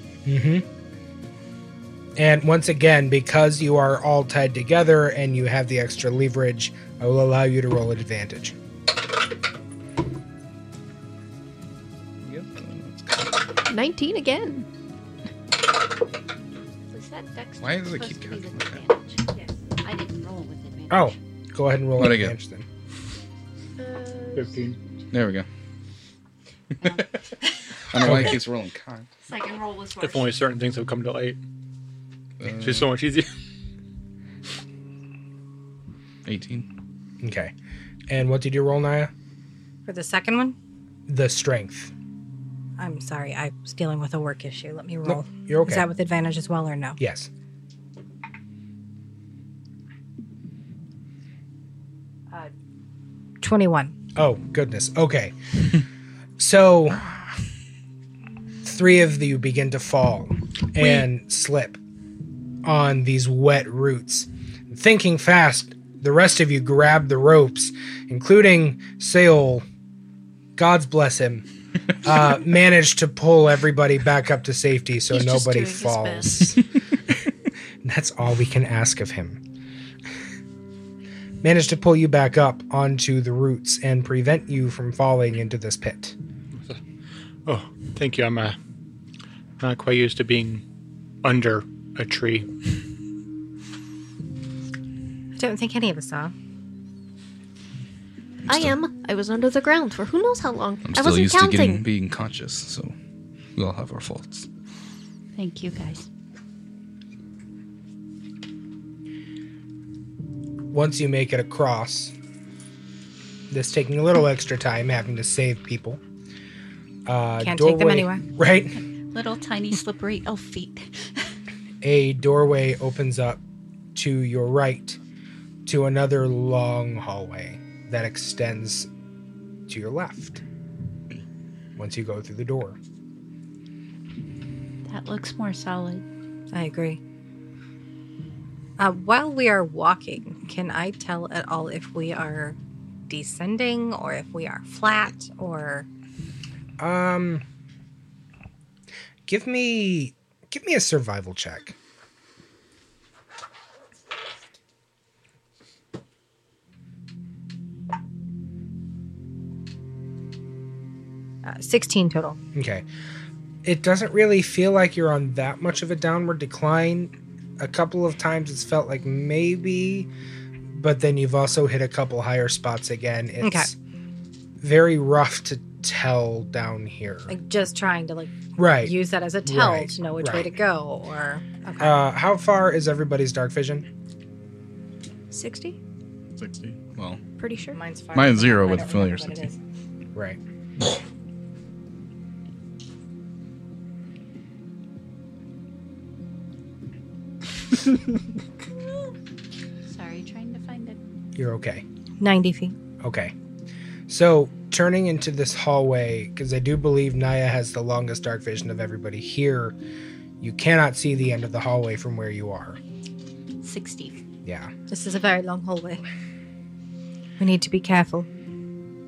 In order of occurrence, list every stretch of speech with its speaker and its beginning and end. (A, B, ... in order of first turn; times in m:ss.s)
0:00.3-0:00.6 A
0:02.2-0:08.6 A
0:12.2-0:13.4 B
0:13.7-0:14.7 C
0:16.9-0:21.2 D
0:17.6-0:18.8 B
0:20.9-0:22.6 A
0:22.0-0:22.4 B
0:23.8-0:24.6 C
0:24.4-0:24.8 E
0:25.1-0:25.5 B
0:26.8-0:27.1 B
0:27.9-0:29.1 B
0:29.2-0:30.2 D
0:30.0-0:31.4 E
0:32.4-0:32.9 B
0:32.5-0:33.3 E
0:36.2-0:36.7 B
0:37.2-0:37.5 A
0:38.1-0:39.1 A
0:39.9-0:40.6 F
0:41.1-0:41.9 A
0:42.8-0:47.0 F
0:45.0-0:45.9 A
0:47.0-0:47.3 A
0:53.4-0:54.0 F
0:54.2-0:55.4 A
0:56.4-0:57.1 A
0:58.6-1:01.8 A
1:02.6-1:09.6 A
1:10.6-1:11.5 A
1:12.0-1:16.6 A
1:15.1-1:16.6 C
1:17.8-1:19.4 A
1:21.4-1:26.2 A
1:27.4-1:28.6 E
1:29.6-1:30.6 E
1:31.2-1:32.5 E
1:35.4-1:36.3 F
1:38.5-1:41.8 C
1:40.8-1:43.0 B
1:43.6-1:44.5 B
1:45.4-1:46.1 D
1:50.7-1:52.1 A
1:53.5-1:56.0 A
1:57.1-1:58.8 A
1:57.4-1:58.2 F
1:59.1-2:01.2 D
2:01.8-2:03.4 A
2:04.0-2:05.0 A
2:05.7-2:08.9 A
2:09.7-2:10.4 A
2:11.8-2:12.8 A
2:14.9-2:16.0 D
2:16.5-2:17.0 F
2:18.8-2:25.9 F
2:26.8-2:27.4 A
2:29.3-2:31.8 A
2:41.4-2:42.4 F
2:42.6-2:42.8 A
2:43.6-2:50.1 A
2:50.7-2:53.8 A
2:53.4-2:53.7 F
2:54.6-2:57.4 A
2:57.3-3:02.0 F
2:58.6-3:00.5 A
3:01.8-3:03.9 A
3:05.3-3:05.8 C
3:06.4-3:07.2 B
3:07.4-3:07.8 C
3:07.7-3:09.6 F
3:08.1-3:09.4 B
3:19.9-3:21.0 D
3:21.4-3:21.8 A
3:22.2-3:22.8 F
3:23.0-3:23.3 A
3:24.1-3:29.8 A
3:30.4-3:32.8 A
3:33.6-3:34.2 D
3:34.4-3:34.7 A
3:34.9-3:36.0 F
3:37.4-3:38.3 F